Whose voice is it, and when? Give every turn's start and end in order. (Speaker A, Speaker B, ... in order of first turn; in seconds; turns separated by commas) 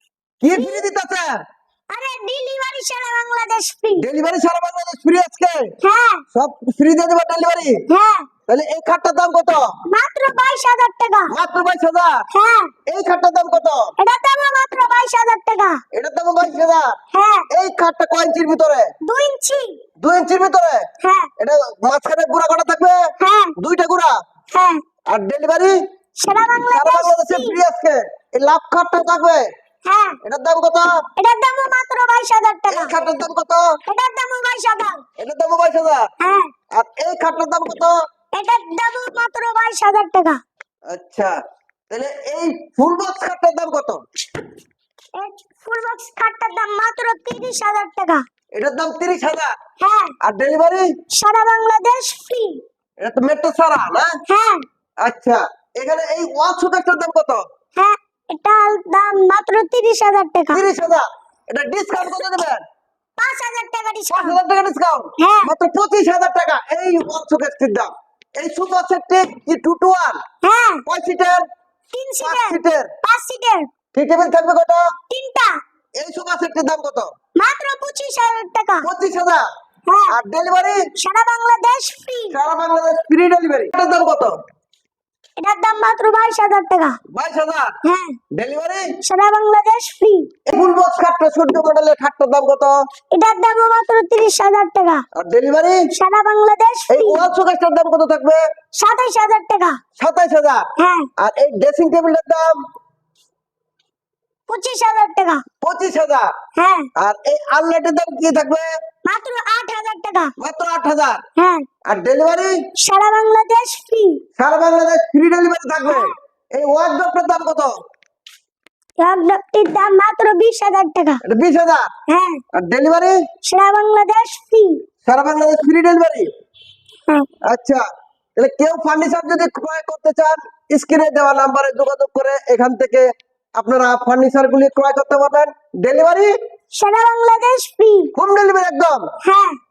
Speaker A: 0.4-1.3, Speaker B: 0.5-0.9, Speaker B: 1.9-4.0, Speaker A: 4.0-5.7, Speaker B: 5.8-6.2, Speaker A: 6.3-7.8, Speaker B: 7.9-8.3, Speaker A: 8.5-9.7, Speaker B: 9.9-11.3, Speaker A: 11.3-12.3, Speaker B: 12.3-12.7, Speaker A: 12.9-13.9, Speaker B: 14.0-15.8, Speaker A: 15.9-16.9, Speaker B: 17.1-17.5, Speaker A: 17.5-18.9, Speaker B: 19.0-19.8, Speaker A: 20.0-20.9, Speaker B: 21.0-21.3, Speaker A: 21.4-23.0, Speaker B: 23.2-23.6, Speaker A: 23.6-24.1, Speaker B: 24.5-24.8, Speaker A: 25.1-25.8, Speaker B: 26.2-27.6, Speaker A: 26.7-29.5, Speaker B: 29.8-30.2, Speaker A: 30.2-31.0, Speaker B: 31.2-32.9, Speaker A: 32.7-33.8, Speaker B: 33.9-35.0, Speaker A: 35.2-36.1, Speaker B: 36.2-36.5, Speaker A: 36.7-38.0, Speaker B: 38.3-40.4, Speaker A: 40.9-41.4, Speaker A: 41.9-44.0, Speaker B: 45.1-48.2, Speaker A: 48.5-49.5, Speaker B: 49.8-50.1, Speaker A: 50.2-50.9, Speaker B: 51.1-52.6, Speaker A: 53.0-54.1, Speaker B: 54.3-54.6, Speaker A: 55.0-57.4, Speaker B: 57.8-60.6, Speaker A: 60.5-62.6, Speaker B: 63.2-64.4, Speaker A: 64.1-70.2, Speaker B: 65.2-65.5, Speaker B: 70.4-70.8, Speaker A: 70.9-71.4, Speaker B: 71.9-73.7, Speaker A: 72.2-72.9, Speaker A: 73.9-74.9, Speaker B: 75.1-75.5, Speaker A: 76.0-77.1, Speaker B: 77.3-78.9, Speaker A: 78.8-79.5, Speaker B: 79.9-80.1, Speaker A: 80.1-80.8, Speaker B: 80.9-82.4, Speaker A: 82.3-84.3, Speaker B: 85.4-87.0, Speaker A: 87.1-87.8, Speaker B: 87.8-88.2, Speaker A: 88.3-88.8, Speaker B: 89.0-90.3, Speaker A: 90.5-92.8, Speaker B: 93.1-95.0, Speaker A: 95.1-95.8, Speaker B: 95.9-97.2, Speaker A: 96.9-98.4, Speaker B: 98.8-99.8, Speaker A: 100.0-102.6, Speaker B: 100.8-101.1, Speaker B: 104.5-105.4, Speaker A: 105.6-106.3, Speaker B: 106.6-106.9, Speaker A: 107.0-108.7, Speaker B: 109.0-110.3, Speaker A: 110.4-111.2, Speaker B: 111.4-111.7, Speaker A: 111.8-112.5, Speaker B: 112.8-114.2, Speaker A: 114.4-117.8, Speaker B: 115.9-116.2, Speaker B: 119.0-121.2, Speaker A: 121.2-121.9, Speaker B: 122.1-122.4, Speaker A: 122.5-123.2, Speaker B: 123.4-124.8, Speaker A: 125.0-126.3, Speaker A: 127.4-127.8, Speaker A: 128.4-136.3, Speaker B: 136.8-138.1, Speaker A: 138.1-139.0, Speaker B: 139.2-139.6